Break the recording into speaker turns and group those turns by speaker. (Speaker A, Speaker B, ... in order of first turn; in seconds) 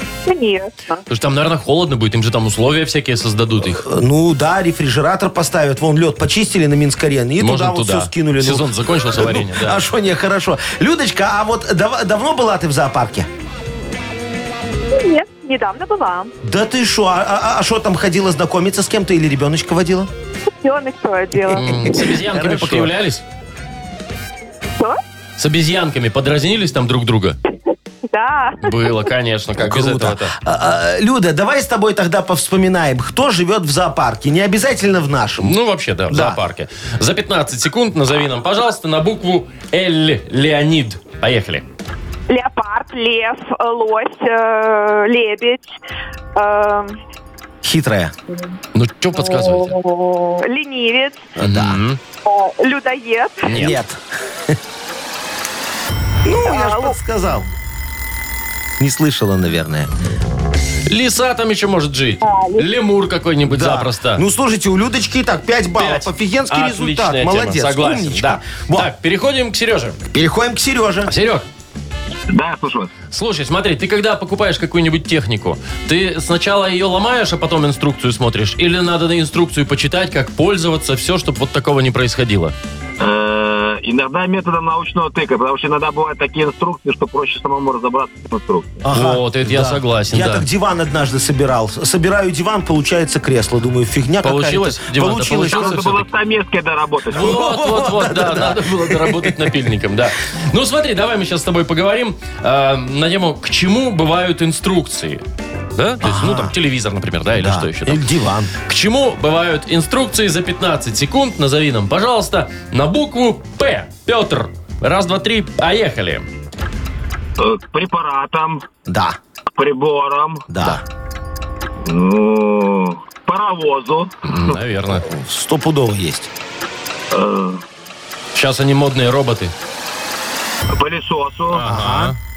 Speaker A: 0.2-1.0, 14.9-16.3, 20.6-21.7, 28.1-29.0, 42.3-45.7, 46.3-47.0, 49.1-51.3, 52.2-53.7, 56.5-57.0, 62.2-62.7
Speaker B: 1.1-3.8, 7.4-9.8, 21.5-23.2, 25.4-27.4, 28.6-30.3, 35.4-41.6, 48.7-49.8, 51.4-52.0, 53.4-53.8, 60.9-64.2, 65.8-70.0, 71.0-71.5, 73.1-82.5, 88.9-90.5, 94.2-96.0, 97.1-105.2, 105.8-108.0, 108.6-116.2, 124.2-125.0, 128.3-129.5, 131.5-132.2
Speaker C: 3.7-13.3, 16.4-20.1, 21.8-22.9, 29.6-35.5, 36.1-36.4, 47.6-48.1, 51.4-51.8, 53.5-54.6, 56.2-57.5, 58.8-59.9, 63.4-68.9, 70.1-71.1, 88.8-96.0, 97.1-99.5, 106.0-106.5, 107.4-108.5, 118.9-119.2, 120.5-120.8, 125.0-126.3, 131.6-132.1
Speaker D: 72.3-72.9, 83.0-88.8, 95.5-97.3, 117.4-118.6, 119.5-120.4, 121.8-124.5, 127.1-127.6, 130.7-131.7